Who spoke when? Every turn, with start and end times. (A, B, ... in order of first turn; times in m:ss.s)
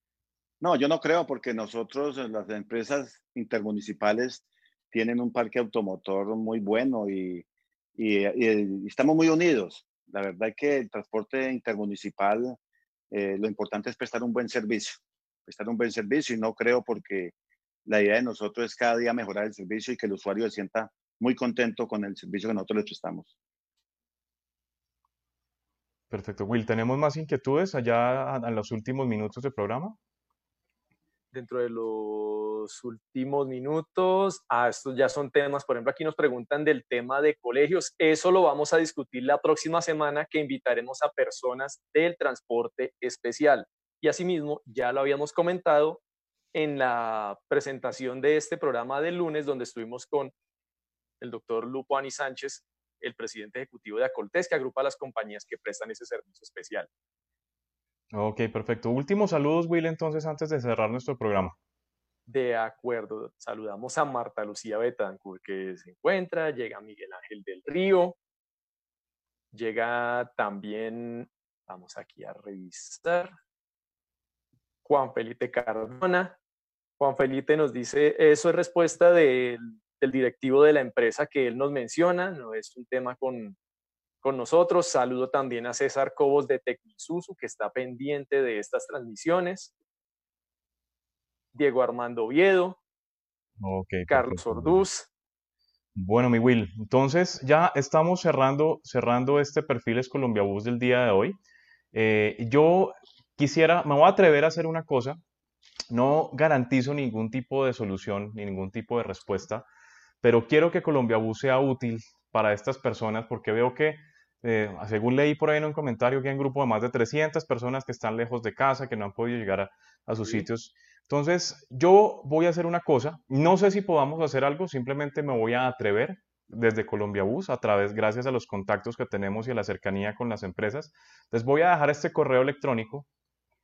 0:00.6-0:12.6 A
0:13.1-0:17.3 A
0:17.9-0:23.3 A
0:26.1-0:30.0 B
0:31.3-0:46.0 C
0:46.5-0:50.3 C
0:51.2-0:56.9 C
0:58.1-1:01.6 B
1:02.3-1:08.2 C
1:09.5-1:13.3 C
1:14.8-1:16.4 C
1:17.0-1:23.6 C
1:24.2-1:29.7 C
1:31.5-1:32.8 C
1:33.6-1:34.8 B
1:34.1-1:35.1 C
1:36.0-1:41.4 B
1:41.9-1:45.2 B
1:45.9-1:49.7 B
1:50.2-2:13.1 B